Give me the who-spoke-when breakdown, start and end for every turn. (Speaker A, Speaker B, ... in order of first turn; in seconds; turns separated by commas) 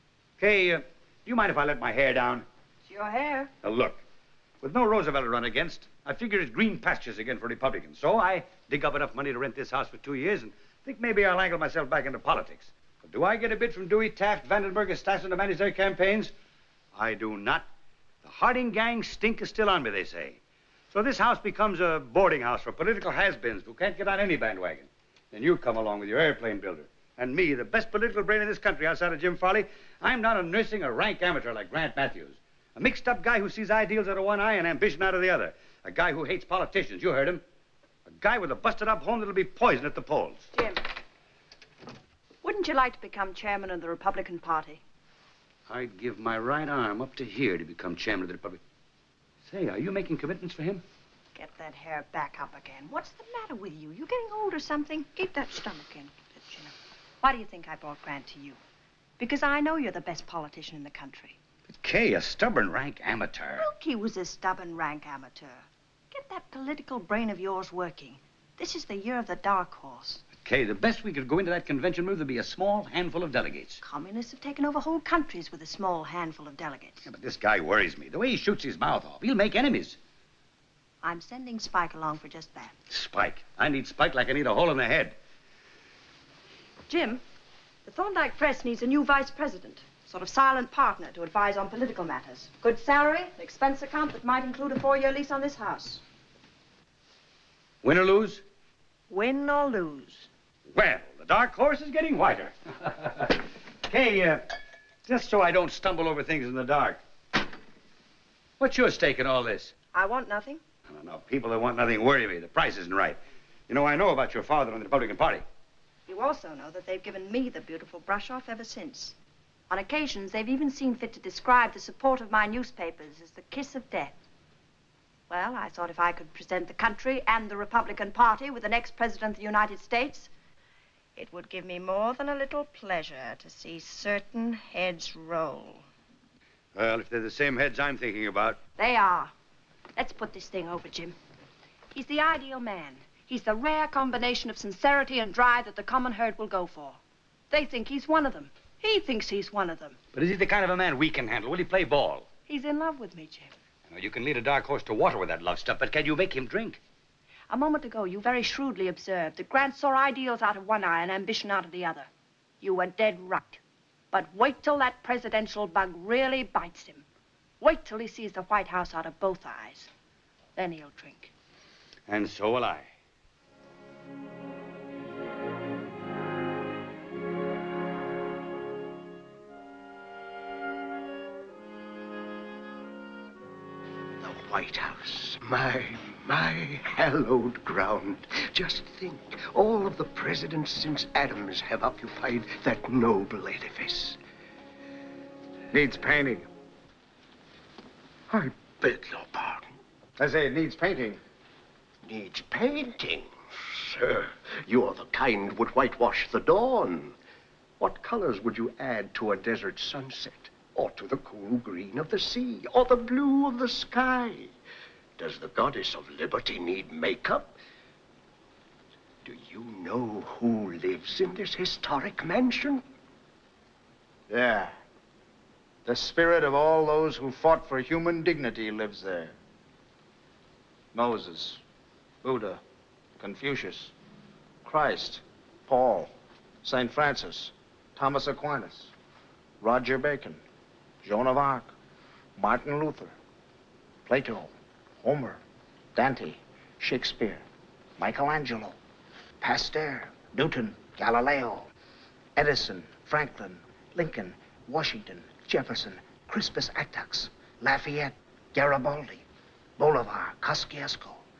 Speaker A: 0.4-2.5, Speaker B: 2.9-3.5, Speaker A: 3.6-4.0, Speaker A: 4.6-16.3, Speaker A: 16.9-17.7, Speaker A: 18.2-20.4, Speaker A: 20.9-37.4, Speaker A: 38.0-40.5, Speaker B: 40.5-40.8, Speaker B: 42.4-44.8, Speaker A: 45.7-48.6, Speaker A: 49.4-50.8, Speaker B: 51.3-58.6, Speaker B: 59.2-61.4, Speaker A: 61.7-63.6, Speaker B: 63.6-70.2, Speaker A: 70.4-73.8, Speaker B: 73.8-77.1, Speaker A: 77.0-80.0, Speaker B: 81.0-82.8, Speaker A: 82.9-85.1, Speaker B: 86.9-87.2, Speaker B: 87.8-96.0, Speaker A: 97.8-98.4, Speaker B: 99.1-100.3, Speaker A: 100.7-104.4, Speaker A: 105.1-107.0, Speaker A: 108.6-109.7, Speaker B: 109.9-110.6, Speaker A: 110.9-115.4, Speaker B: 116.1-119.2, Speaker B: 119.7-124.2, Speaker B: 125.3-130.3, Speaker B: 131.2-135.8, Speaker A: 136.7-138.6, Speaker B: 138.8-139.3, Speaker B: 139.9-141.2, Speaker B: 141.9-147.0, Speaker B: 147.5-150.0, Speaker A: 150.1-152.3, Speaker B: 152.5-153.5, Speaker A: 153.9-156.8, Speaker B: 157.5-162.1, Speaker B: 162.6-163.6, Speaker B: 164.1-167.1, Speaker B: 167.6-169.9, Speaker B: 170.6-171.3, Speaker A: 172.1-172.9, Speaker C: 184.2-194.2, Speaker D: 195.7-196.5, Speaker C: 198.3-199.7, Speaker D: 200.2-201.2, Speaker C: 202.1-207.1, Speaker C: 207.8-214.5, Speaker C: 215.2-217.6, Speaker C: 219.2-222.8, Speaker D: 224.3-224.7, Speaker D: 225.8-229.4, Speaker D: 230.9-231.6, Speaker D: 232.2-232.6, Speaker D: 233.2-233.9, Speaker D: 234.6-236.1, Speaker D: 236.6-238.9, Speaker D: 239.6-240.4, Speaker D: 241.0-241.7, Speaker D: 242.3-243.2, Speaker D: 244.1-245.4, Speaker D: 245.9-247.4, Speaker D: 248.0-248.8, Speaker D: 249.4-251.7, Speaker D: 252.3-259.2, Speaker D: 259.8-261.2